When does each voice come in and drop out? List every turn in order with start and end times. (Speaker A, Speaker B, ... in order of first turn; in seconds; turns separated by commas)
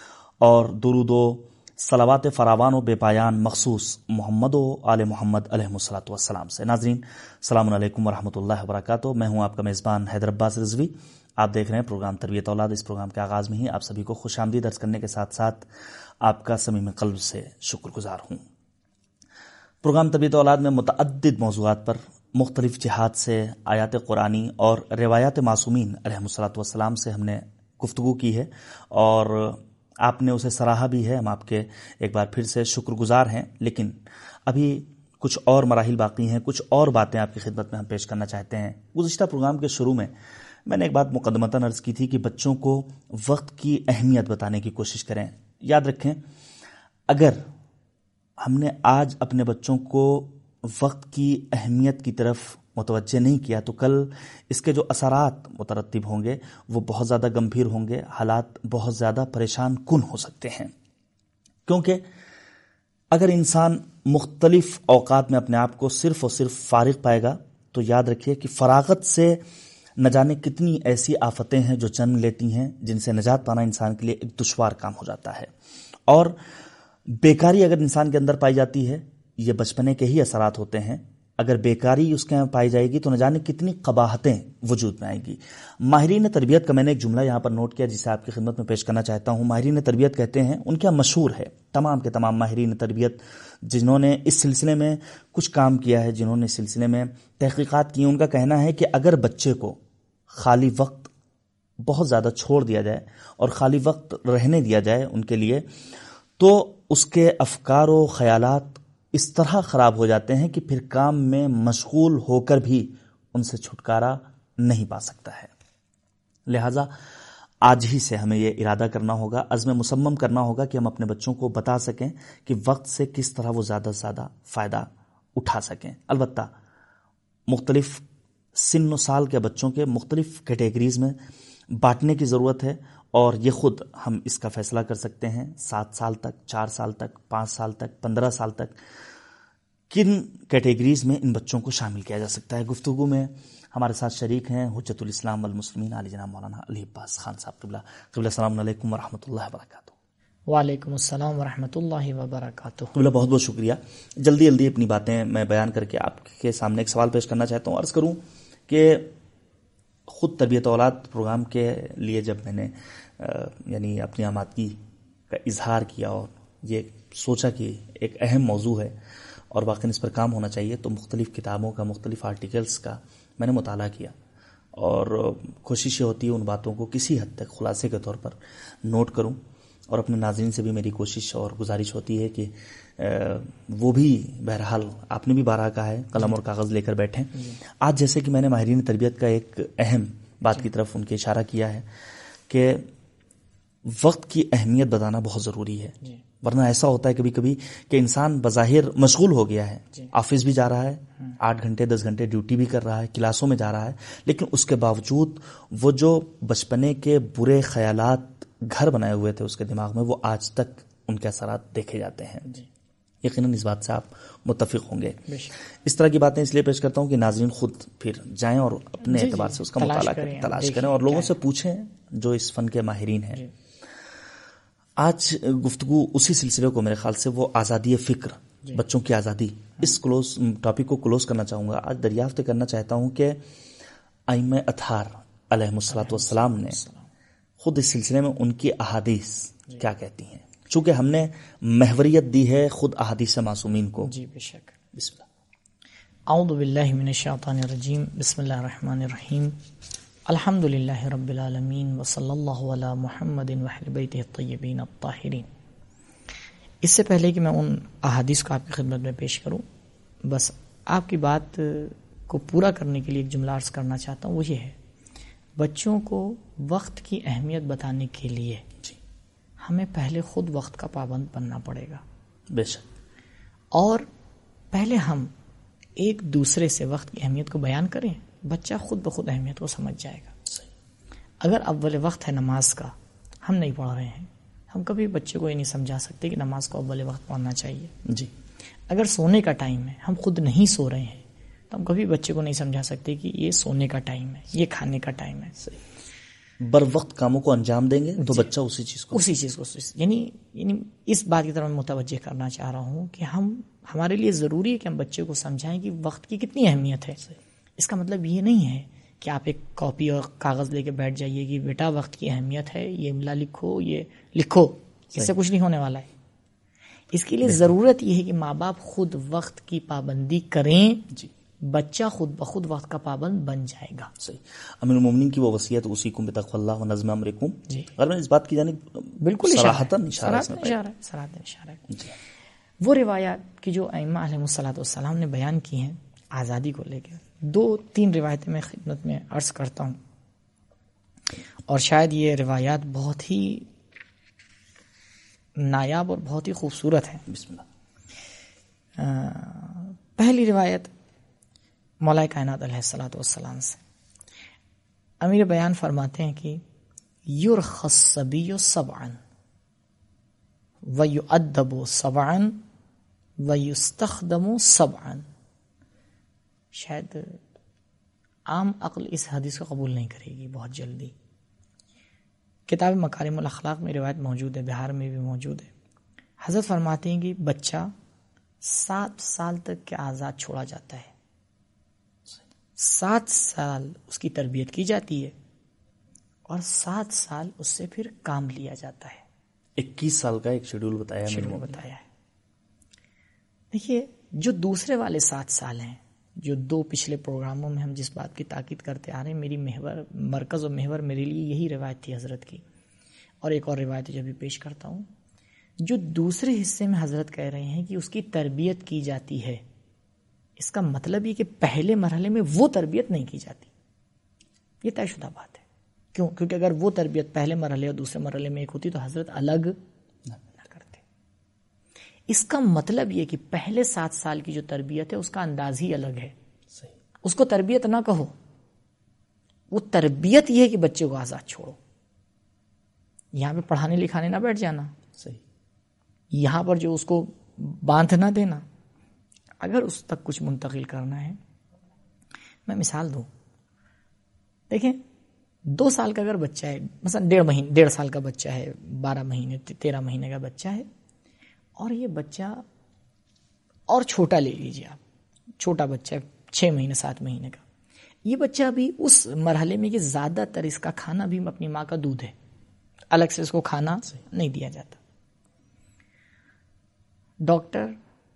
Speaker A: 0.4-15.7, Speaker A: 16.2-18.4, Speaker A: 19.8-40.1, Speaker A: 40.6-46.2, Speaker A: 47.1-47.5, Speaker A: 48.4-60.7, Speaker A: 61.6-62.0, Speaker A: 63.1-69.4, Speaker A: 70.0-75.5, Speaker A: 76.1-76.4, Speaker A: 77.1-101.1, Speaker A: 101.8-105.7, Speaker A: 106.4-115.5, Speaker A: 116.5-116.9, Speaker A: 117.6-126.5, Speaker A: 127.5-128.0, Speaker A: 128.5-131.2, Speaker A: 131.7-138.8, Speaker A: 139.9-149.9, Speaker B: 150.5-152.9, Speaker A: 152.9-159.1, Speaker A: 160.1-164.8, Speaker A: 165.3-168.9, Speaker A: 169.5-174.1, Speaker A: 174.8-191.9, Speaker A: 192.5-192.9, Speaker A: 193.8-212.5, Speaker A: 213.2-223.4, Speaker B: 215.3-215.5, Speaker B: 219.0-221.3, Speaker A: 225.0-233.4, Speaker A: 234.3-236.8, Speaker B: 235.9-237.1, Speaker A: 237.6-244.1, Speaker B: 244.1-244.8, Speaker A: 244.9-245.2, Speaker B: 246.3-249.6, Speaker B: 250.2-255.5, Speaker B: 256.8-259.6, Speaker B: 260.2-264.8, Speaker B: 265.6-268.6, Speaker B: 269.6-272.0, Speaker A: 272.5-272.9, Speaker B: 273.7-274.1, Speaker B: 274.7-275.3, Speaker B: 276.0-280.3, Speaker B: 281.4-287.9, Speaker A: 288.0-288.3, Speaker B: 288.9-295.5, Speaker A: 296.6-299.3, Speaker B: 299.1-307.2, Speaker B: 307.8-316.1, Speaker B: 317.1-321.1, Speaker B: 321.6-324.1, Speaker A: 324.2-330.8, Speaker B: 329.2-332.0, Speaker B: 332.8-340.0, Speaker B: 341.7-343.7, Speaker B: 345.6-347.2, Speaker A: 347.3-347.6, Speaker B: 349.0-350.9, Speaker B: 352.0-353.8, Speaker B: 355.2-356.6, Speaker B: 357.2-359.2, Speaker B: 360.8-362.6, Speaker B: 363.4-365.3, Speaker B: 366.7-367.4, Speaker B: 368.5-371.1, Speaker B: 372.7-375.7, Speaker B: 376.4-377.9, Speaker B: 378.6-381.1, Speaker B: 382.8-385.3, Speaker B: 386.5-389.2, Speaker A: 389.8-391.8, Speaker B: 391.3-392.0, Speaker B: 393.7-402.6, Speaker B: 403.4-405.1, Speaker B: 405.8-409.6, Speaker B: 410.6-413.7, Speaker B: 414.8-419.8, Speaker B: 420.5-421.0, Speaker B: 422.3-426.3, Speaker B: 427.2-428.3, Speaker B: 429.7-431.8, Speaker B: 433.3-434.9, Speaker B: 436.3-438.6, Speaker B: 439.6-441.4, Speaker B: 442.6-443.3, Speaker B: 444.7-445.0, Speaker B: 445.6-450.9, Speaker B: 451.8-452.6, Speaker B: 453.9-455.0, Speaker B: 455.6-457.6, Speaker B: 458.2-462.3, Speaker B: 463.1-465.0, Speaker B: 467.4-468.0